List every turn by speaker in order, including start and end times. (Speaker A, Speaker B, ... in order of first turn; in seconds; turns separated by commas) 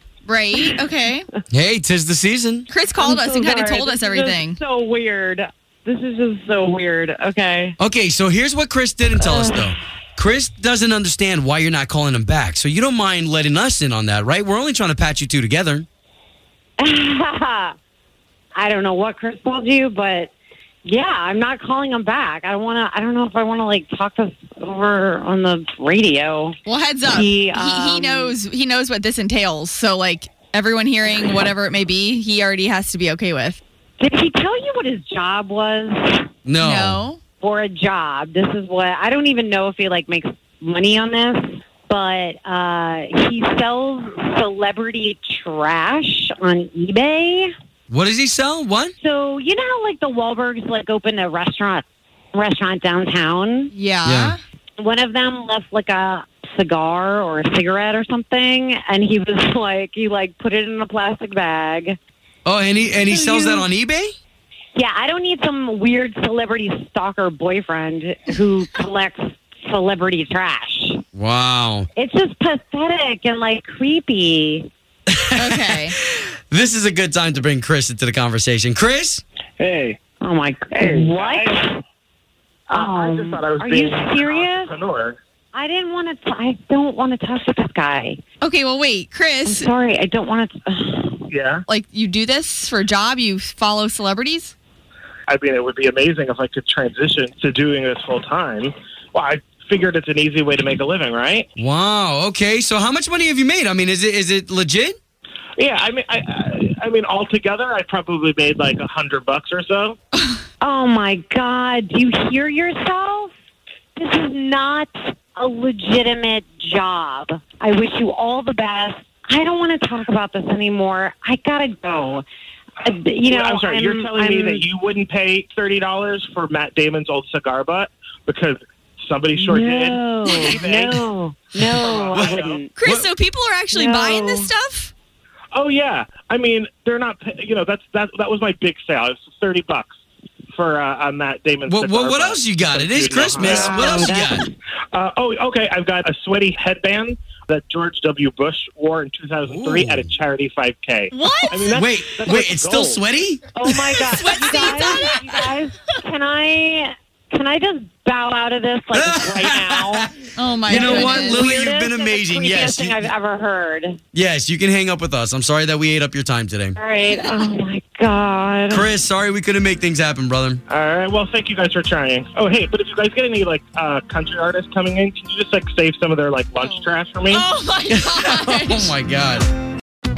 Speaker A: 0.3-1.3, Speaker B: 1.5-2.7, Speaker A: 2.7-4.6, Speaker C: 3.0-7.8, Speaker B: 7.8-15.9, Speaker C: 9.2-9.6, Speaker C: 16.8-17.7, Speaker C: 18.6-20.3, Speaker C: 20.8-28.4, Speaker A: 26.6-33.6, Speaker C: 34.0-36.3, Speaker B: 36.5-37.0, Speaker A: 36.6-37.2, Speaker C: 37.4-47.5, Speaker B: 47.9-48.9, Speaker C: 49.0-53.7, Speaker A: 53.7-54.4, Speaker B: 54.0-54.4, Speaker C: 54.8-62.0, Speaker B: 62.5-64.2, Speaker A: 63.0-63.7, Speaker C: 64.8-71.0, Speaker B: 71.2-71.9, Speaker C: 72.0-74.7, Speaker B: 75.1-79.2, Speaker A: 75.4-76.0, Speaker D: 79.6-80.0, Speaker C: 80.2-81.8, Speaker D: 80.8-81.7, Speaker C: 82.7-84.7, Speaker D: 82.7-85.2, Speaker C: 85.5-88.2, Speaker A: 88.4-89.7, Speaker C: 89.5-91.3, Speaker D: 91.3-91.7, Speaker A: 91.7-94.5, Speaker D: 95.3-101.5, Speaker B: 101.6-105.0, Speaker D: 105.6-110.0, Speaker C: 110.6-113.3, Speaker C: 114.0-122.2, Speaker C: 122.8-124.6, Speaker D: 123.3-131.0, Speaker C: 129.4-132.7, Speaker A: 130.3-130.7, Speaker D: 131.7-132.7, Speaker B: 132.1-133.1, Speaker A: 132.8-134.9, Speaker C: 133.7-134.5, Speaker D: 135.5-139.9, Speaker D: 140.5-144.1, Speaker B: 141.7-144.5, Speaker C: 143.3-144.5, Speaker D: 144.9-153.0, Speaker B: 149.4-150.2, Speaker A: 151.1-151.9, Speaker B: 151.7-154.2, Speaker C: 153.5-160.1, Speaker A: 154.2-155.3, Speaker B: 158.9-160.1, Speaker A: 160.3-161.5, Speaker B: 160.7-163.1, Speaker C: 160.7-164.0, Speaker B: 164.1-166.8, Speaker C: 166.8-168.9, Speaker B: 168.7-170.6, Speaker D: 170.7-177.4, Speaker A: 176.6-178.9, Speaker B: 177.9-179.5